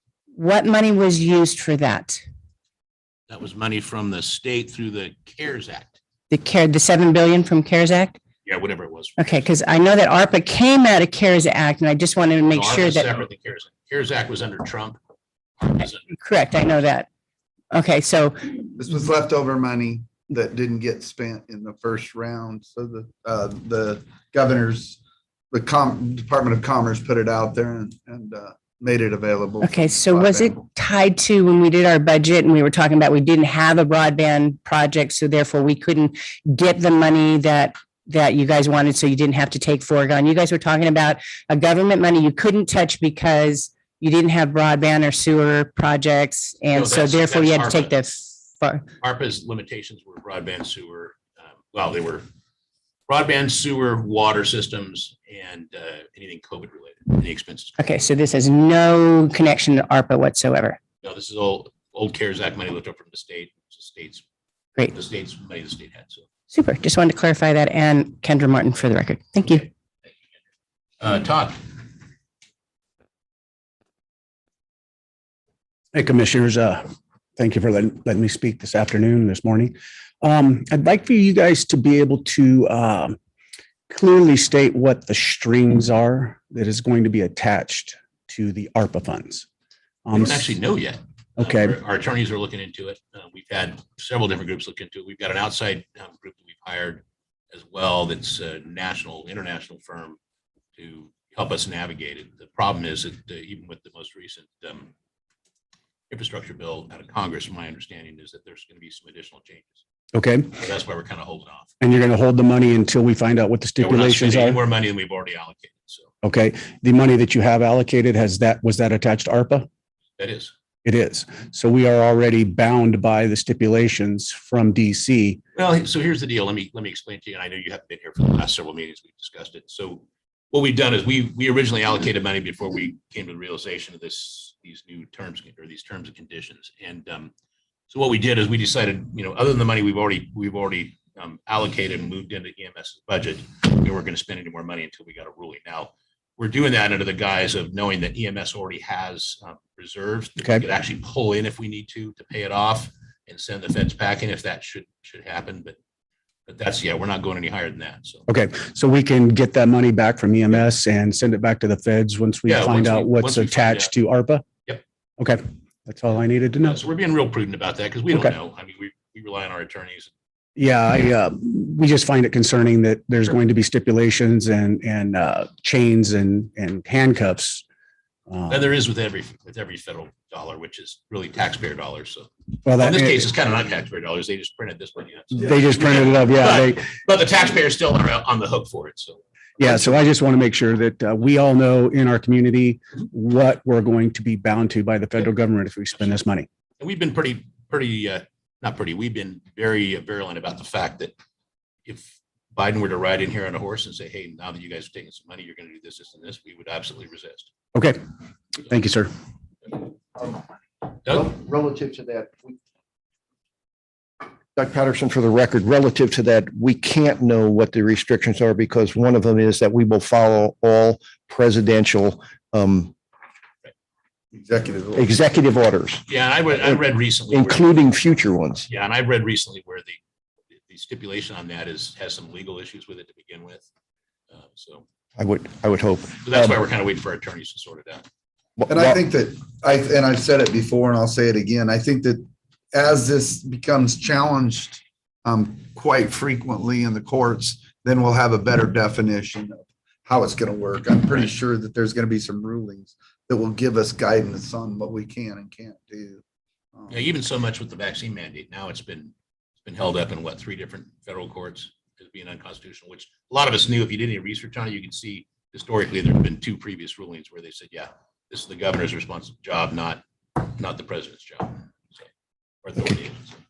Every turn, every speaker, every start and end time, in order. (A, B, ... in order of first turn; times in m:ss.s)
0:00.3-0:02.2 A
0:03.3-0:06.0 B
0:06.3-0:08.2 A
0:08.4-0:09.3 B
0:09.2-0:13.2 A
0:12.5-0:15.0 B
0:15.6-0:16.1 B
0:16.1-0:17.1 A
0:17.7-0:18.5 A
0:18.7-0:25.0 C
0:25.5-0:30.6 C
0:29.6-0:48.9 A
0:46.7-0:47.9 B
0:49.0-0:52.2 B
0:53.1-0:57.8 B
0:57.8-1:00.8 A
1:01.0-1:04.2 B
1:04.9-1:06.2 B
1:06.5-1:09.7 A
1:11.0-1:11.6 B
1:15.9-1:23.2 D
1:23.9-1:29.5 D
1:30.0-1:30.5 D
1:30.1-1:40.2 B
1:31.4-1:31.8 D
1:40.7-1:44.9 B
1:46.1-1:49.8 B
1:50.1-1:50.5 D
1:50.5-1:51.7 B
1:51.8-1:54.6 D
1:53.8-1:56.1 B
1:56.2-1:59.7 D
2:00.2-2:00.5 B
2:00.8-2:05.4 D
2:05.5-2:17.3 B
2:17.9-2:35.8 B
2:36.5-2:38.2 B
2:38.3-2:44.4 D
2:42.4-2:43.9 B
2:45.2-2:46.8 D
2:46.6-2:50.1 B
2:50.6-2:57.6 D
2:58.3-2:58.7 D
2:58.5-3:10.0 B
3:02.6-3:03.3 D
3:05.3-3:06.8 D
3:09.6-3:16.5 D
3:16.8-3:21.1 B
3:21.8-3:27.5 B
3:27.7-3:28.0 D
3:28.6-3:29.1 D
3:31.1-3:32.6 E
3:34.6-3:42.9 E
3:44.3-3:45.1 C
3:44.9-3:46.0 E
3:46.1-3:47.8 B
3:47.3-3:48.6 E
3:48.7-3:50.0 B
3:50.7-3:53.6 B
3:54.3-3:54.8 B
3:55.2-3:56.5 E
3:56.2-3:58.0 B
3:58.6-3:59.0 E
3:58.7-4:16.2 C
4:16.9-4:32.0 B
4:32.6-4:33.3 B